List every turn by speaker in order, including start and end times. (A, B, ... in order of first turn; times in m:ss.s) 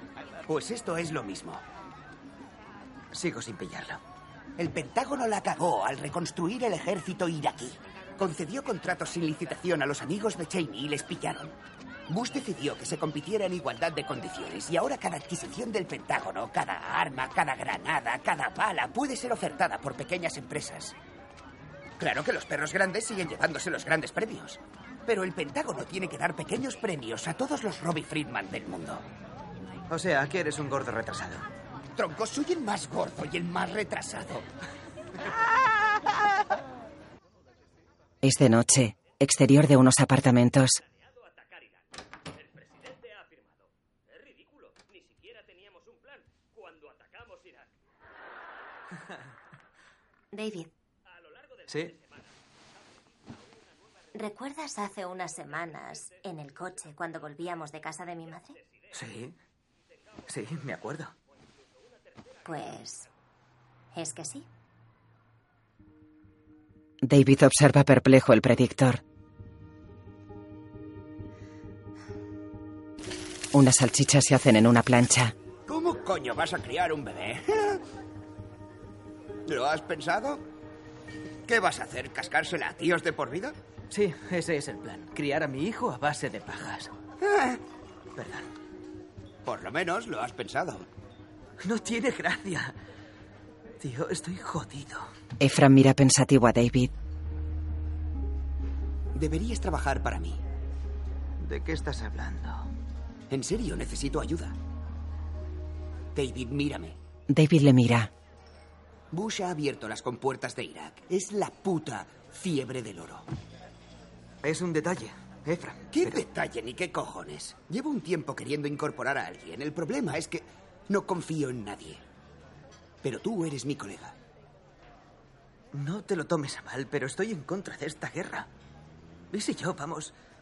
0:00.5-0:01.6 A
0:03.1-0:04.0 B
0:04.6-0:11.5 A
0:12.1-0:20.9 A
0:22.0-0:29.0 A
0:29.9-0:31.4 B
0:32.0-0:34.4 A
0:38.2-0:40.8 C
0:50.3-0:50.7 D
0:51.7-0:51.9 B
0:54.1-0:58.6 D
0:58.9-0:59.4 B
1:00.3-1:01.1 B
1:02.4-1:03.1 D
1:03.9-1:04.5 D
1:07.0-1:09.0 C
1:13.5-1:15.3 C
1:15.7-1:17.8 A
1:19.4-1:20.4 A
1:21.5-1:23.6 A
1:23.9-1:26.9 B
1:27.2-1:27.6 A
1:28.2-1:28.5 B
1:29.4-1:30.9 A
1:31.6-1:32.7 B
1:33.8-1:35.1 B
1:35.4-1:36.9 C
1:39.1-1:40.4 A
1:41.4-1:42.7 B
1:43.3-1:44.5 A
1:46.1-1:47.0 A
1:47.3-1:48.1 C
1:49.1-1:53.2 A
1:54.4-1:56.2 B
1:55.9-2:02.0 A
2:03.0-2:04.1 A
2:05.7-2:08.5 B
2:09.3-2:10.1 B